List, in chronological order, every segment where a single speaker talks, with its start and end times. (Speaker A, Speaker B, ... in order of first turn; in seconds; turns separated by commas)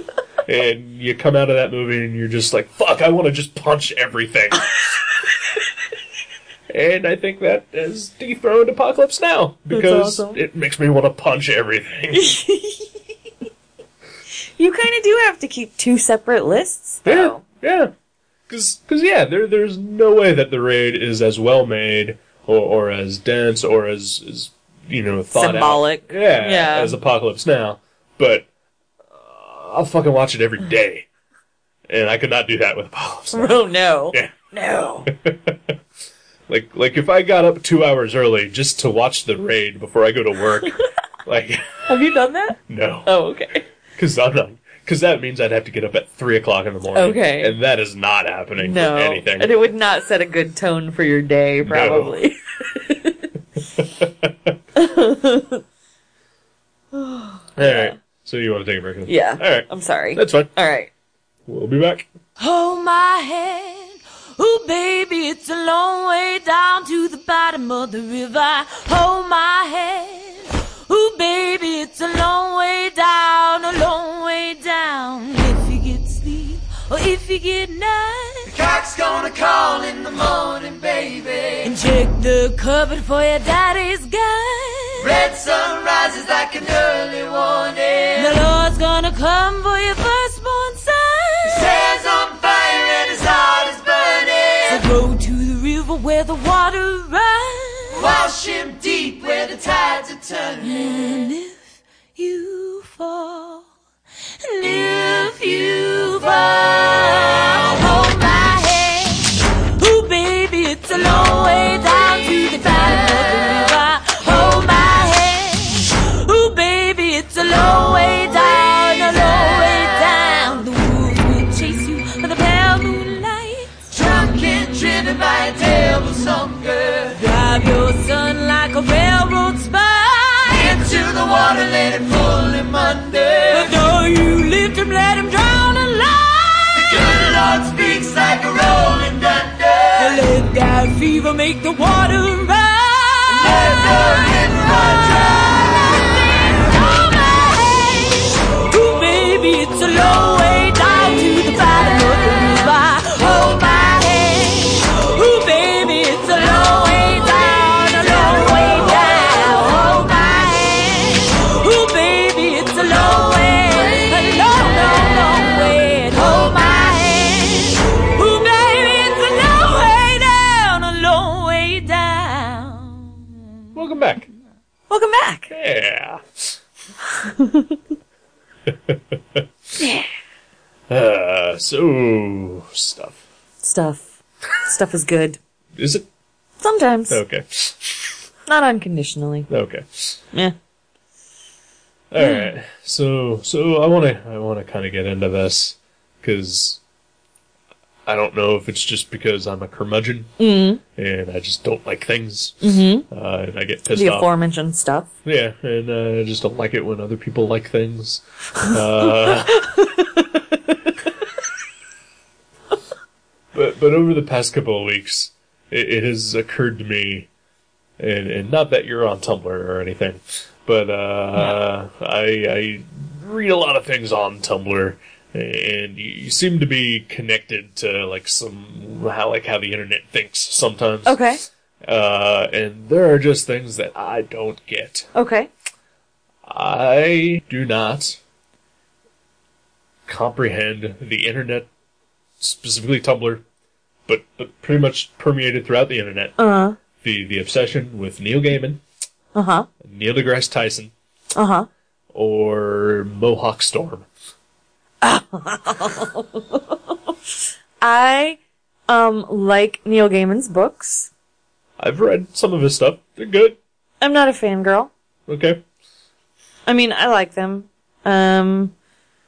Speaker A: 0.5-4.8, Speaker A: 6.7-12.4, Speaker B: 9.7-10.4, Speaker B: 12.1-12.9, Speaker B: 14.6-17.4, Speaker A: 17.1-17.9, Speaker A: 18.5-28.5, Speaker B: 25.3-26.9, Speaker A: 29.1-31.1, Speaker A: 31.9-34.3, Speaker B: 33.3-35.1, Speaker A: 35.1-35.8, Speaker A: 36.5-41.9, Speaker B: 41.9-43.6, Speaker A: 42.7-43.1, Speaker A: 44.0-49.5, Speaker B: 46.9-47.5, Speaker B: 48.6-53.2, Speaker A: 51.6-52.2, Speaker A: 53.8-54.6, Speaker B: 54.8-55.6, Speaker B: 56.9-57.9, Speaker A: 57.6-60.5, Speaker B: 59.1-60.9, Speaker A: 61.5-62.1, Speaker C: 62.4-78.5, Speaker D: 78.5-81.7, Speaker C: 81.6-85.2, Speaker D: 85.0-88.3, Speaker C: 88.2-91.8, Speaker D: 91.5-94.8, Speaker C: 94.7-98.1, Speaker D: 98.0-100.9, Speaker C: 100.6-103.7, Speaker C: 104.4-123.7, Speaker D: 123.9-127.2, Speaker C: 127.2-130.8, Speaker D: 130.5-133.7, Speaker C: 133.5-137.0, Speaker D: 136.8-140.2, Speaker C: 140.0-173.4, Speaker D: 143.3-145.8, Speaker A: 173.8-174.3, Speaker B: 174.9-175.5, Speaker A: 175.5-176.6, Speaker B: 177.2-177.8, Speaker A: 178.7-179.5, Speaker B: 179.8-180.1, Speaker A: 180.9-183.2, Speaker B: 183.6-185.4, Speaker A: 185.8-186.1, Speaker B: 186.6-187.2, Speaker A: 187.1-188.1, Speaker B: 188.5-189.5, Speaker A: 189.5-190.2, Speaker A: 192.1-196.8, Speaker B: 192.2-192.5, Speaker A: 198.1-200.3, Speaker B: 200.4-200.8, Speaker A: 200.9-204.3, Speaker B: 202.6-203.1, Speaker B: 203.9-205.1, Speaker A: 205.2-209.7, Speaker B: 209.3-210.4, Speaker A: 213.5-217.3, Speaker A: 218.0-231.2, Speaker B: 231.1-231.4, Speaker A: 231.8-235.1, Speaker B: 235.2-235.5, Speaker A: 236.5-238.2, Speaker A: 240.1-241.7, Speaker A: 242.4-243.4, Speaker A: 244.1-246.4, Speaker B: 246.4-246.8, Speaker A: 247.0-248.8, Speaker B: 249.3-249.7, Speaker A: 249.8-250.9, Speaker B: 251.3-251.7, Speaker A: 252.1-254.1, Speaker B: 255.0-256.8, Speaker B: 257.8-261.1, Speaker A: 261.8-263.6, Speaker B: 264.0-264.9, Speaker A: 265.3-265.6, Speaker B: 266.7-268.7